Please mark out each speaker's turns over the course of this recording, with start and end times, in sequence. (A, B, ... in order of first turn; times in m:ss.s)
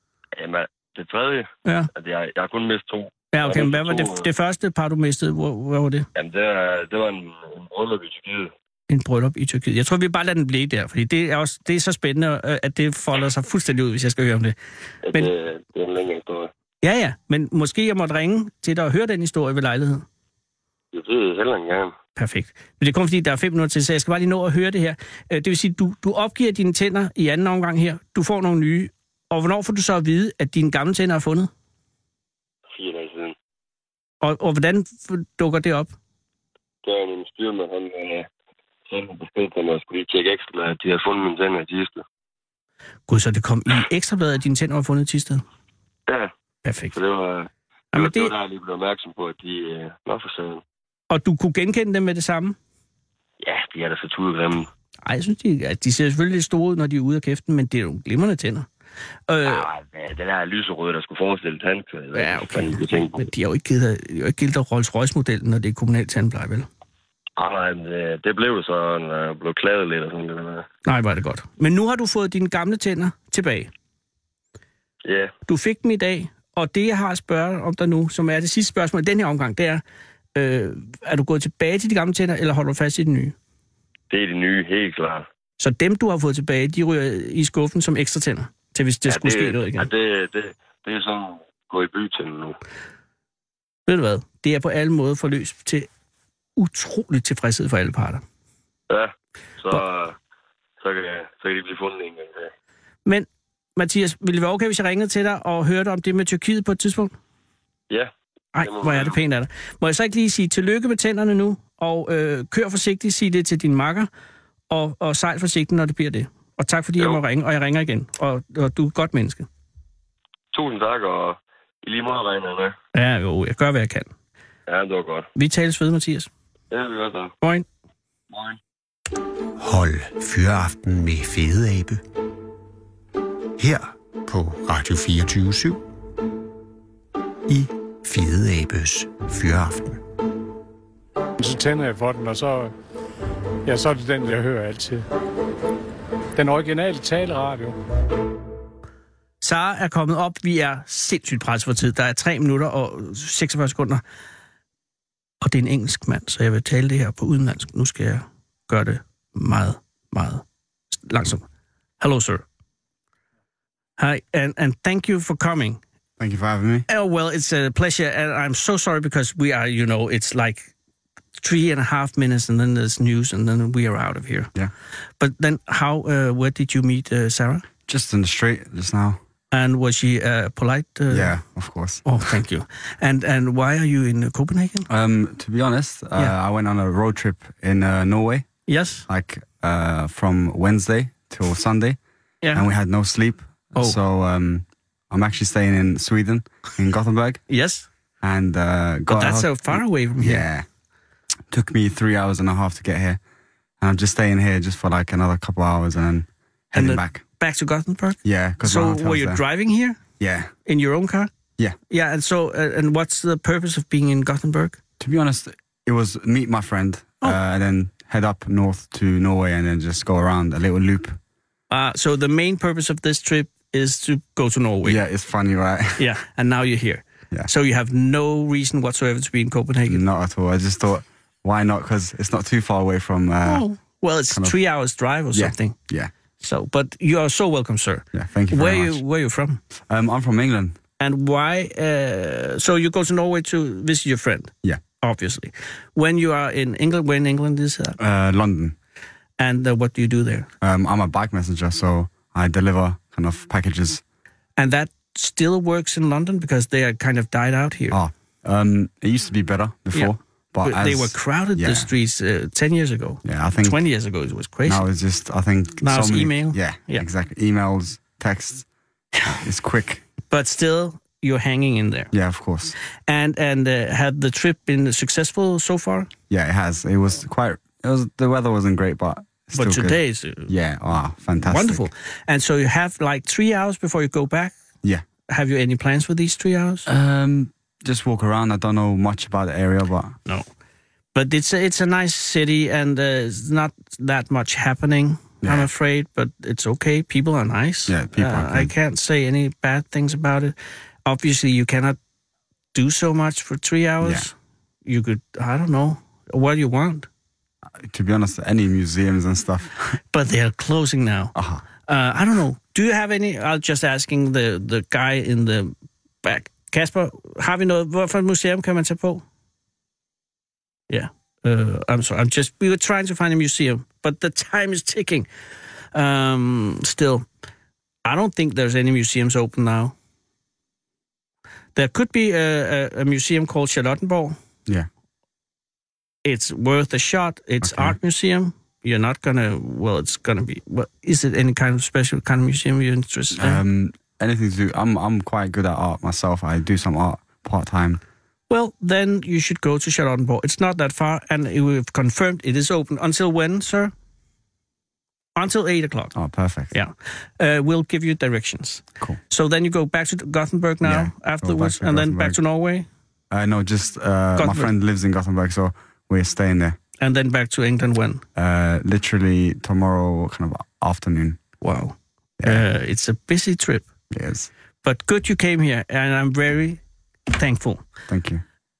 0:00.4-0:04.3 A
0:03.3-0:06.1 B
0:06.1-0:08.5 A
0:08.9-0:14.6 B
0:15.0-0:16.5 A
0:16.8-0:20.0 B
0:20.9-0:21.9 A
0:22.2-0:31.5 B
0:32.7-0:33.3 A
0:34.2-0:35.9 B
0:36.8-0:38.3 A
0:38.9-0:42.0 A
0:43.1-0:45.4 B
0:46.6-0:47.0 B
0:46.9-0:50.6 A
0:47.9-0:48.3 B
0:51.1-0:52.6 B
0:53.4-0:54.7 A
0:55.0-0:58.7 B
0:59.3-0:59.6 B
0:59.4-1:03.2 A
1:02.1-1:06.7 B
1:07.4-1:10.7 A
1:10.8-1:13.7 B
1:15.0-1:15.3 A
1:15.4-1:19.8 B
1:20.3-1:23.3 B
1:24.1-1:25.2 A
1:25.6-1:29.9 B
1:29.0-1:32.6 A
1:33.9-1:35.9 B
1:36.6-1:38.2 B
1:38.9-1:40.2 A
1:40.8-1:42.5 A
1:43.0-1:47.1 B
1:47.9-1:49.2 A
1:48.5-1:54.1 B
1:54.7-1:59.5 B
2:00.5-2:02.8 A
2:02.9-2:04.1 B
2:04.7-2:05.3 A
2:05.3-2:06.3 B
2:06.7-2:07.3 A
2:08.3-2:08.6 A
2:09.6-2:12.0 C
2:13.6-2:15.8 C
2:17.5-2:20.0 C
2:21.4-2:22.7 D
2:23.6-2:25.0 D
2:26.4-2:27.8 D
2:29.4-2:34.0 B
2:35.4-2:41.4 B
2:42.0-2:42.4 B
2:44.0-2:45.8 B
2:46.2-2:46.8 E
2:46.9-2:50.7 B
2:51.4-2:54.5 B
2:55.2-2:57.7 B
2:57.8-2:59.2 E
2:59.5-3:01.4 B
3:01.1-3:02.0 E
3:02.0-3:04.9 B
3:04.9-3:08.5 E
3:08.7-3:09.0 B
3:09.1-3:12.0 E
3:12.4-3:12.7 B
3:12.5-3:17.4 E
3:17.5-3:17.9 B
3:18.2-3:20.6 E
3:19.1-3:20.5 B
3:21.5-3:23.2 E
3:23.8-3:27.2 E
3:26.7-3:30.0 B
3:28.2-3:29.4 E
3:30.2-3:30.5 E
3:30.6-3:31.3 B
3:31.9-3:34.8 B
3:35.0-3:41.2 E
3:41.7-3:45.0 B
3:44.8-3:46.0 E
3:46.0-3:50.0 B
3:49.8-3:53.6 E
3:53.4-3:55.8 B
3:54.3-3:54.5 E
3:55.3-3:56.1 E
3:56.4-3:59.6 B
3:58.1-3:59.0 E
3:59.8-4:00.8 E
4:01.0-4:08.0 B
4:08.0-4:08.8 E
4:09.4-4:10.5 B
4:10.6-4:14.0 E
4:14.6-4:18.0 B
4:17.9-4:21.9 E
4:19.9-4:24.9 B
4:23.2-4:23.8 E
4:24.6-4:28.7 E
4:25.8-4:27.0 B
4:29.2-4:30.0 E
4:30.3-4:32.1 B
4:32.1-4:32.8 E
4:33.1-4:36.1 B
4:36.3-4:41.9 E
4:39.5-4:40.5 B
4:41.4-4:44.6 B
4:45.3-4:46.9 B
4:46.8-4:50.2 E
4:51.1-5:02.0 B
4:55.4-4:55.7 E
4:57.9-4:58.7 E
5:02.7-5:04.3 B
5:04.0-5:04.3 E
5:04.8-5:07.1 B
5:07.8-5:10.0 E
5:10.1-5:11.3 B
5:11.3-5:11.6 E
5:11.8-5:19.2 B
5:20.9-5:25.3 B
5:25.9-5:27.2 B
5:28.0-5:29.9 B
5:31.7-5:34.4 B
5:36.2-5:43.6 B
5:37.6-5:38.0 E
5:43.3-5:48.0 E
5:48.5-5:53.9 B
5:55.4-5:56.1 B
5:56.1-5:56.7 E
5:56.7-6:02.9 B
6:00.8-6:02.4 E
6:03.3-6:06.8 E
6:04.4-6:04.7 B
6:07.0-6:08.2 B
6:08.4-6:11.4 E
6:11.6-6:13.9 B
6:12.4-6:12.6 E
6:14.1-6:14.5 E
6:14.8-6:16.8 B
6:17.3-6:17.8 B
6:18.1-6:18.4 E